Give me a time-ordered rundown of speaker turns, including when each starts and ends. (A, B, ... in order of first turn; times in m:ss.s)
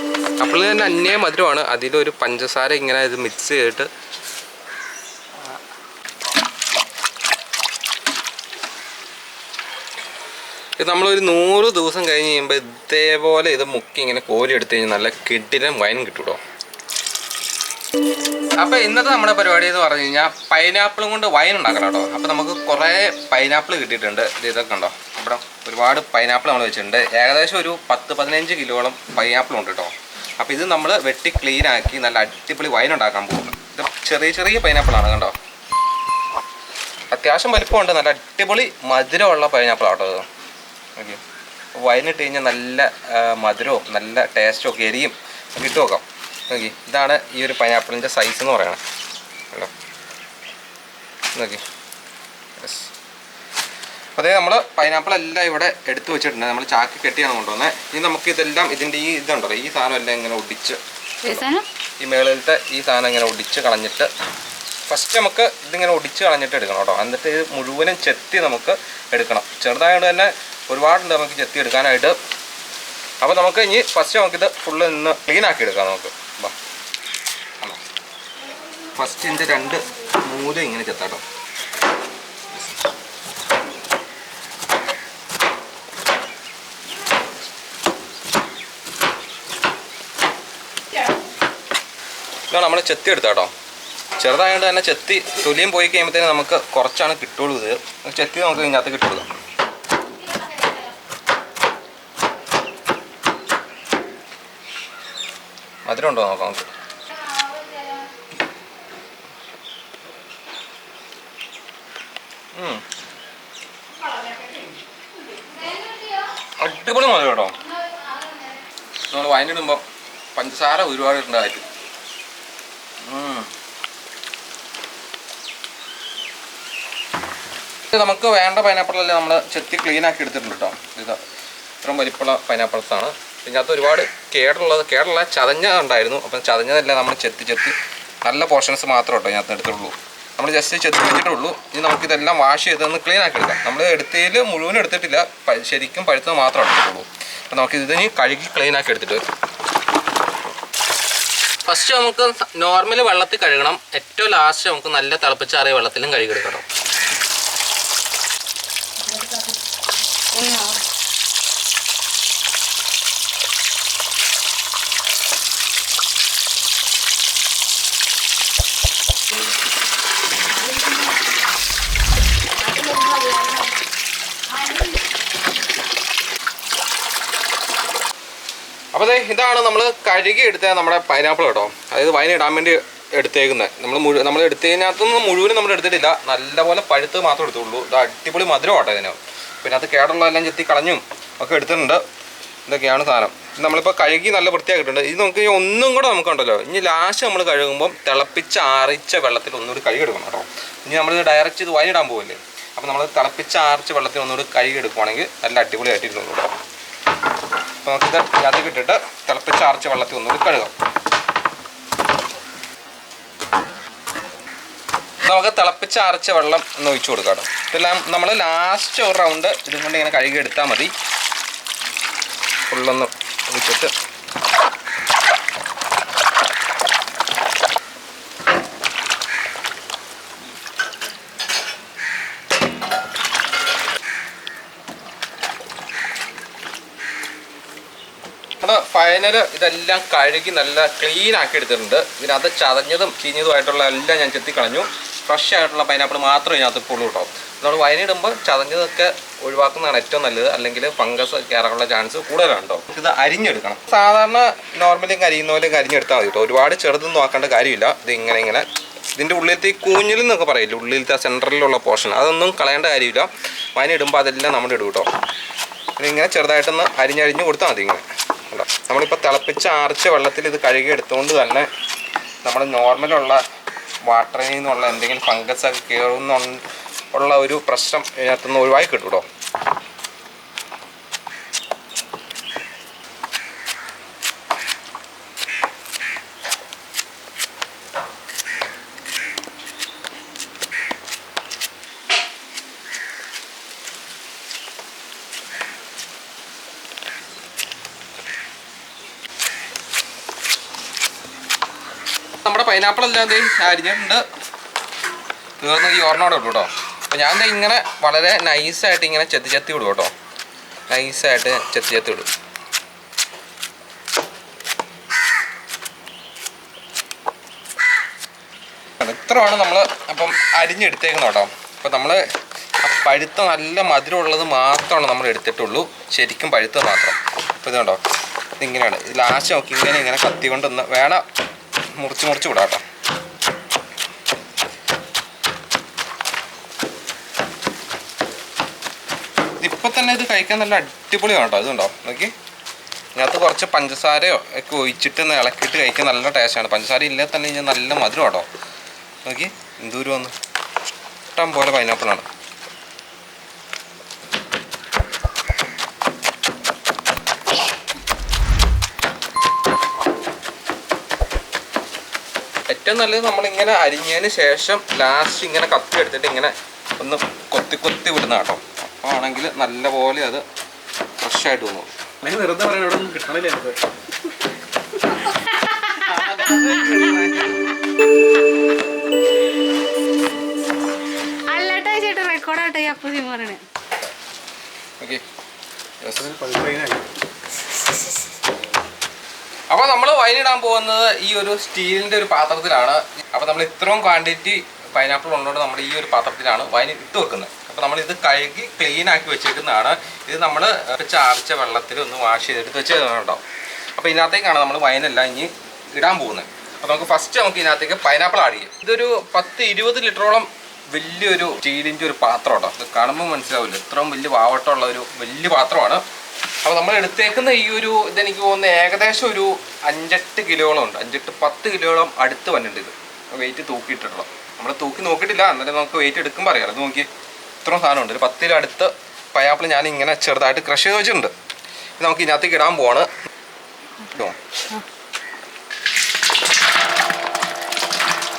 0:00.4-0:03.9 A
0:10.8-0:16.4 A
0:18.6-0:35.4 A
0:37.1-0:40.3 A
0:41.0-0:41.2 A
0:41.8-0:48.8 A
0:51.4-0:51.6 A
0:52.6-0:52.9 A
0:54.2-1:00.8 A
1:01.2-1:01.7 B
1:02.0-1:04.1 A
1:04.9-1:12.2 A
1:13.2-1:16.6 A
1:19.0-1:21.2 A
1:32.5-1:33.5 A
1:34.2-1:39.3 A
1:40.2-1:40.9 B
1:45.8-1:46.7 A
1:47.1-1:48.1 B
1:52.5-1:52.8 A
1:54.1-1:56.4 B
1:56.6-1:57.6 A
1:57.6-1:58.6 B
1:59.1-1:59.8 A
2:00.4-2:01.7 A
2:03.0-2:03.5 A
2:07.9-2:11.2 A
2:11.8-2:29.2 A
2:31.6-2:36.6 A
2:39.1-2:39.4 B
2:40.3-2:40.8 B
2:50.7-2:51.0 B
2:52.6-2:53.8 B
2:54.6-2:54.9 B
2:58.9-3:12.0 A
3:12.7-3:26.5 A
3:27.8-3:30.7 A
3:35.2-3:40.9 A
3:42.7-3:43.9 A
3:58.6-4:25.1 A
4:26.0-4:31.7 A
4:32.4-4:33.4 A
4:34.1-4:39.3 A
5:02.4-5:04.2 A
5:05.6-5:10.1 A
5:10.9-5:12.3 A
5:19.0-5:22.2 A
5:22.8-5:28.0 A
5:28.6-5:31.2 A
5:32.0-5:32.8 A
5:39.6-5:42.3 A
5:43.2-5:48.5 A
5:49.2-5:50.3 A
5:51.3-5:52.3 A
6:02.7-6:10.4 A
6:11.2-6:11.9 A
6:12.2-6:13.8 C
6:15.1-6:16.4 B
6:16.3-6:17.4 C
6:21.5-6:23.6 B
6:26.0-6:26.9 A
6:26.3-6:27.0 C
6:29.7-6:43.4 A
6:44.0-6:56.0 A
6:56.6-7:07.1 A
7:07.6-7:11.3 A
7:12.0-7:13.1 A
7:14.1-7:14.4 A